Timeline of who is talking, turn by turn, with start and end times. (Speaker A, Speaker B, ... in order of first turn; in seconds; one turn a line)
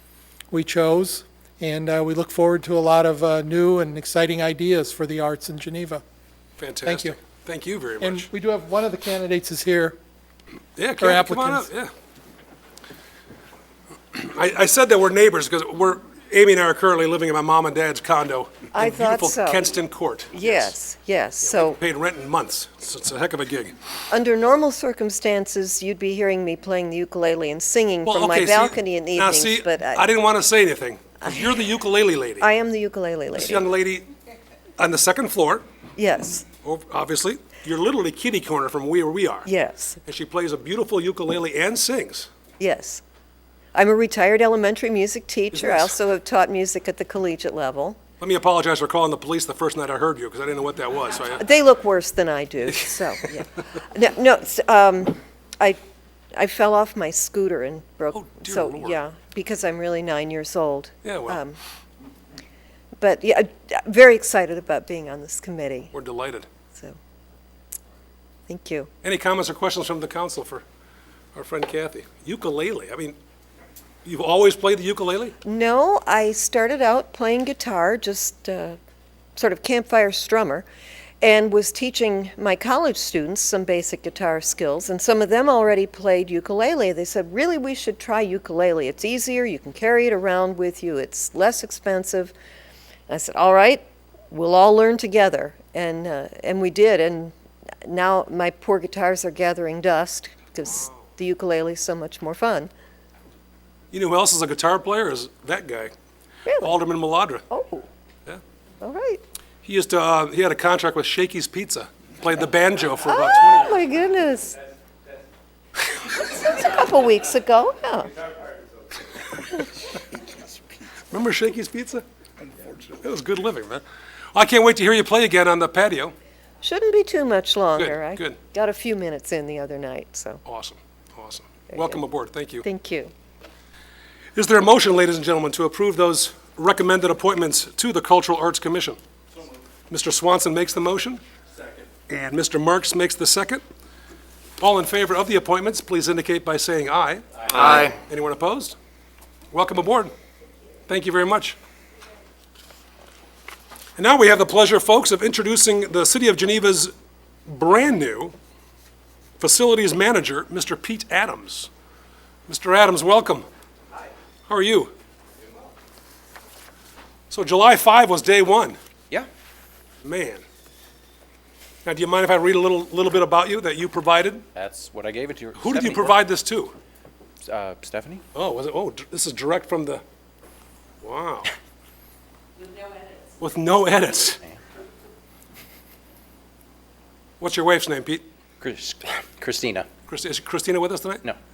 Speaker A: 0.5-6.0
Speaker B: 6.6-8.3
Speaker A: 6.8-7.2
Speaker A: 8.0-10.0
Speaker B: 10.8-11.9
Speaker A: 11.0-11.7
Speaker B: 14.1-20.8
Speaker C: 18.7-19.6
Speaker C: 20.3-21.8
Speaker B: 21.5-23.7
Speaker C: 24.1-30.0
Speaker B: 28.1-32.5
Speaker C: 32.4-33.6
Speaker B: 33.3-34.1
Speaker B: 34.8-35.6
Speaker C: 36.0-36.5
Speaker B: 36.6-39.5
Speaker C: 39.5-40.0
Speaker B: 40.0-42.3
Speaker C: 42.6-43.0
Speaker C: 43.7-48.0
Speaker B: 45.5-45.9
Speaker B: 48.2-51.4
Speaker C: 51.4-55.8
Speaker C: 56.4-61.6
Speaker B: 58.1-59.0
Speaker B: 61.0-61.4
Speaker C: 63.0-65.9
Speaker B: 65.9-66.5
Speaker C: 68.5-68.9
Speaker B: 69.0-70.6
Speaker B: 71.3-73.2
Speaker B: 74.0-75.3
Speaker C: 75.4-78.8
Speaker C: 79.4-80.7
Speaker C: 81.2-92.3
Speaker C: 93.1-102.7
Speaker B: 103.9-105.9
Speaker C: 106.5-106.8
Speaker B: 106.6-107.5
Speaker C: 107.5-107.8
Speaker C: 108.8-109.2
Speaker B: 109.6-113.8
Speaker C: 113.1-114.6
Speaker C: 116.1-118.1
Speaker B: 121.1-123.8
Speaker B: 124.3-126.1
Speaker C: 126.6-130.4
Speaker B: 127.8-128.4
Speaker B: 130.4-132.7
Speaker C: 131.7-132.0
Speaker C: 132.6-133.1
Speaker B: 134.3-139.0
Speaker B: 139.9-141.2
Speaker B: 142.1-143.6
Speaker B: 144.6-148.8
Speaker B: 149.5-150.1
Speaker B: 150.9-151.6
Speaker B: 154.0-156.9
Speaker B: 157.5-158.3
Speaker B: 159.4-161.7
Speaker B: 162.5-163.5
Speaker B: 164.5-164.9
Speaker B: 167.3-168.8
Speaker B: 170.0-170.4
Speaker B: 171.8-174.4
Speaker D: 174.5-176.2
Speaker B: 175.6-176.8
Speaker D: 177.4-178.2
Speaker B: 178.3-180.0
Speaker B: 181.0-181.5
Speaker B: 183.4-184.4
Speaker B: 187.4-188.2
Speaker D: 188.6-189.9
Speaker B: 190.1-191.2